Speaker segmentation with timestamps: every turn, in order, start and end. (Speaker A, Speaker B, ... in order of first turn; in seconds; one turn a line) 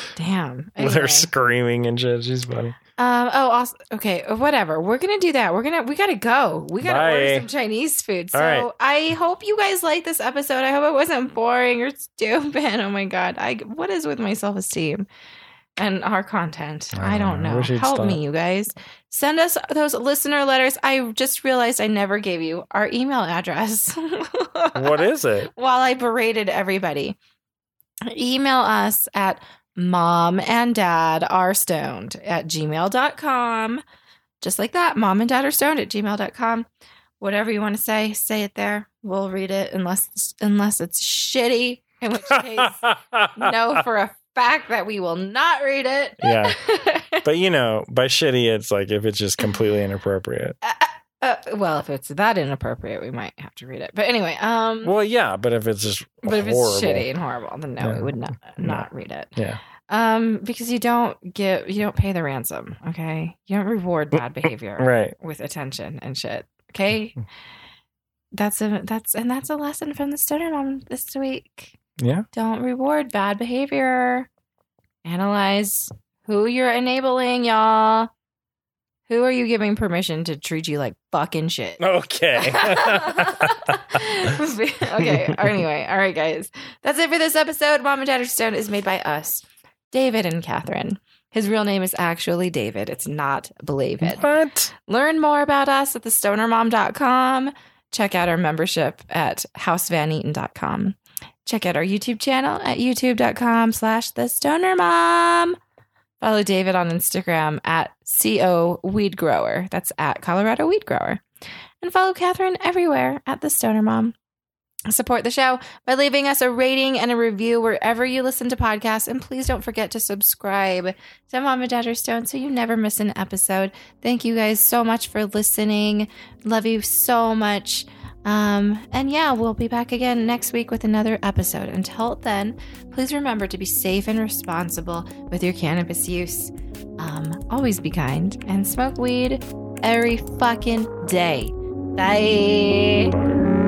Speaker A: 0.2-1.3
Speaker B: 0.8-2.8
Speaker A: 3.0-15.1
Speaker B: 6.8-7.5
Speaker B: 8.3-8.7
Speaker A: 15.8-27.2
Speaker B: 16.9-18.2
Speaker B: 24.8-25.5
Speaker A: 28.1-33.8
Speaker A: 34.4-36.7
Speaker A: 37.2-42.8
Speaker B: 42.3-43.8
Speaker A: 43.4-47.2
Speaker B: 46.2-46.6
Speaker B: 47.2-50.5
Speaker A: 50.6-54.9
Speaker B: 54.8-57.1
Speaker A: 56.2-59.4
Speaker B: 57.8-59.6
Speaker A: 59.9-67.2
Speaker B: 64.1-65.2
Speaker A: 68.3-71.8
Speaker B: 72.0-72.3
Speaker A: 72.3-74.3
Speaker A: 75.0-78.1
Speaker A: 79.1-81.8
Speaker B: 81.8-84.3
Speaker A: 82.3-94.3
Speaker B: 85.0-85.6
Speaker B: 94.0-94.7
Speaker A: 94.9-105.6
Speaker A: 106.2-111.2
Speaker A: 111.8-114.2
Speaker A: 114.9-143.2